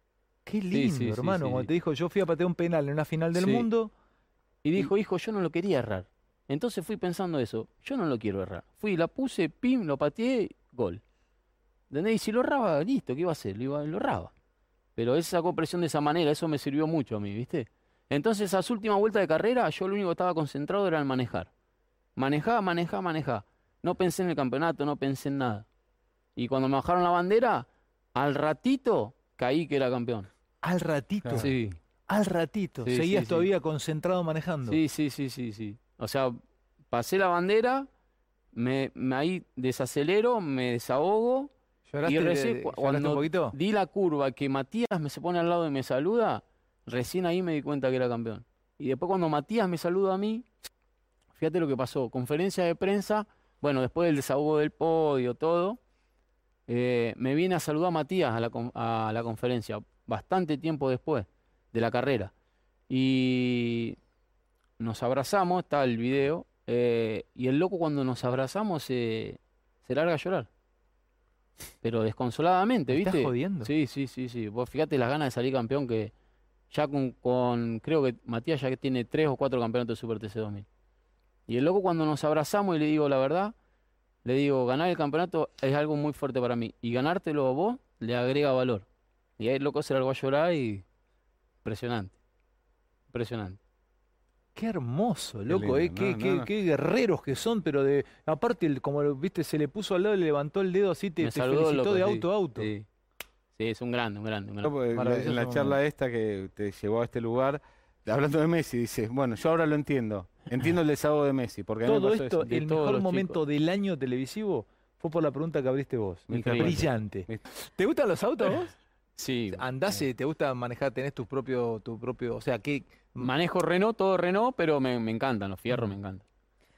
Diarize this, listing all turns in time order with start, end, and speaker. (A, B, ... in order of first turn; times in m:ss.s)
0:00.4-0:03.9 A
0:00.7-0:01.7 B
0:03.3-0:03.7 B
0:04.6-0:11.0 B
0:11.9-0:14.3 B
0:15.0-0:21.5 B
0:22.2-0:25.6 B
0:26.4-0:30.3 B
0:30.6-0:31.5 A
0:31.3-0:31.8 B
0:32.1-0:34.8 A
0:32.8-0:33.5 B
0:34.6-0:36.4 B
0:36.9-0:37.9 B
0:38.5-0:41.5 B
0:41.9-0:43.6 A
0:42.0-0:50.4 B
0:51.4-0:55.8 B
0:56.7-1:02.3 B
1:02.9-1:04.0 B
1:04.8-1:10.5 B
1:11.8-1:16.1 B
1:12.9-1:13.7 A
1:16.7-1:20.6 B
1:21.5-1:23.5 B
1:24.2-1:28.8 B
1:29.4-1:30.8 B
1:31.6-1:32.2 B
1:33.1-1:33.6 B
1:34.5-1:42.7 A
1:35.5-1:36.5 C
1:41.2-1:42.9 B
1:43.5-1:44.7 B
1:44.6-1:52.4 C
1:44.9-1:45.8 A
1:51.8-1:58.8 A
1:52.4-1:53.4 B
1:56.3-1:57.4 C
1:56.3-1:56.8 B
1:59.2-2:00.0 B
1:59.5-2:03.3 A
2:03.2-2:06.2 B